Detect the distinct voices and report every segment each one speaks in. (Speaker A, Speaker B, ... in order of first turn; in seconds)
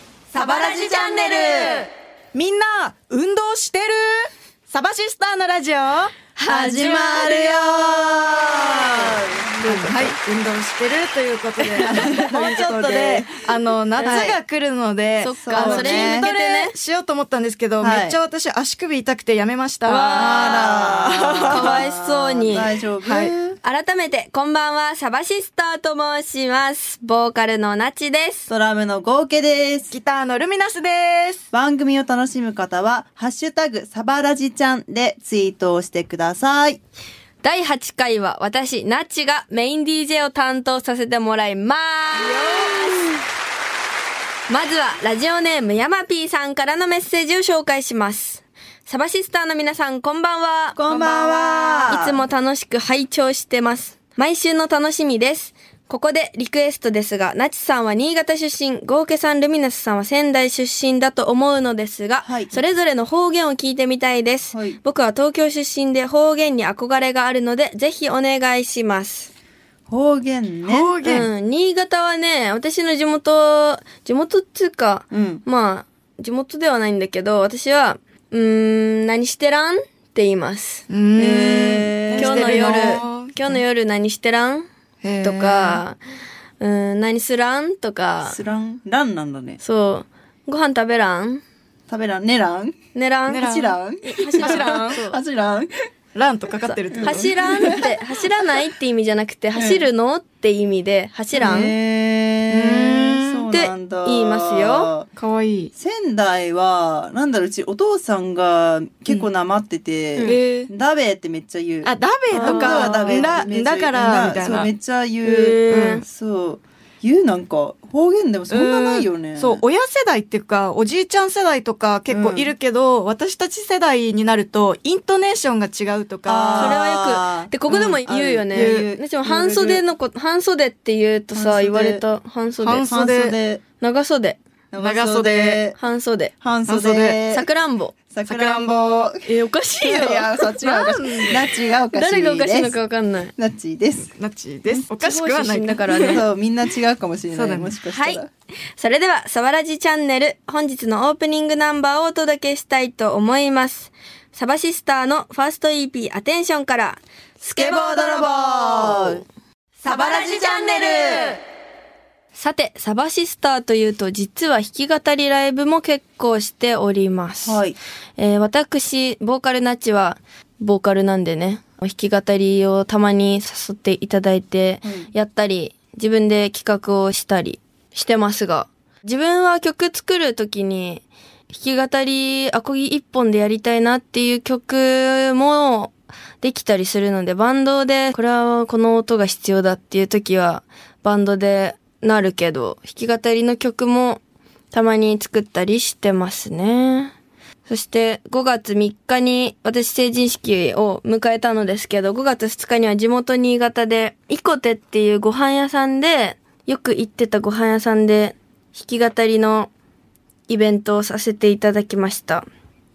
Speaker A: 0.5-1.6, 6.4-7.9, 8.4-9.0, 9.6-10.2, 14.0-14.3, 15.2-16.7, 19.9-20.6, 21.5-22.7, 23.6-28.5, 37.4-43.1, 44.5-50.8, 51.8-69.3, 71.0-80.8, 82.1-84.7, 85.2-86.0, 86.6-88.4, 89.6-91.4, 92.9-93.5, 94.0-95.2, 96.6-101.7, 103.5-104.9, 112.3-113.4, 115.2-116.0, 126.5-132.9, 133.8-134.4, 135.7-136.3, 137.3-137.9, 139.2-140.3, 141.9-143.3, 144.9-146.2, 147.8-148.2, 148.8-159.1, 159.8-161.3, 162.3-167.6, 168.2-194.2, 194.7-197.1, 197.7-209.7, 210.5-212.4
Speaker B: 2.3-6.1, 9.6-21.8, 23.0-23.3, 29.9-31.4, 42.2-43.1, 50.9-51.8, 70.7-71.3, 80.9-83.3, 85.0-85.8, 93.3-93.8, 94.3-94.9, 96.1-97.9, 102.5-103.5, 105.2-105.7, 110.2-110.7, 111.8-114.7, 115.7-116.0, 118.5-126.8, 128.5-128.9, 132.6-133.3, 134.8-135.6, 136.7-137.2, 138.2-139.1, 140.6-141.4, 144.2-146.2, 147.3-147.7
Speaker C: 6.4-9.9, 11.7-14.3, 15.4-16.3, 17.8-18.1, 20.0-23.6, 28.5-29.9, 31.5-36.8, 50.7-52.2, 62.2-62.6, 64.5-64.8, 69.9-70.9, 75.1-75.4, 81.2-83.6, 88.2-89.6, 91.9-92.8, 93.3-95.7, 96.9-97.9, 99.5-99.9, 101.3-105.1, 105.8-119.6, 122.1-122.5, 126.2-129.8, 131.3-132.0, 132.8-133.6, 134.7-135.8, 136.4-137.5, 138.1-139.3, 139.8-142.8, 143.4-144.1, 145.9-148.3, 157.6-159.2, 167.4-167.8, 174.8-175.1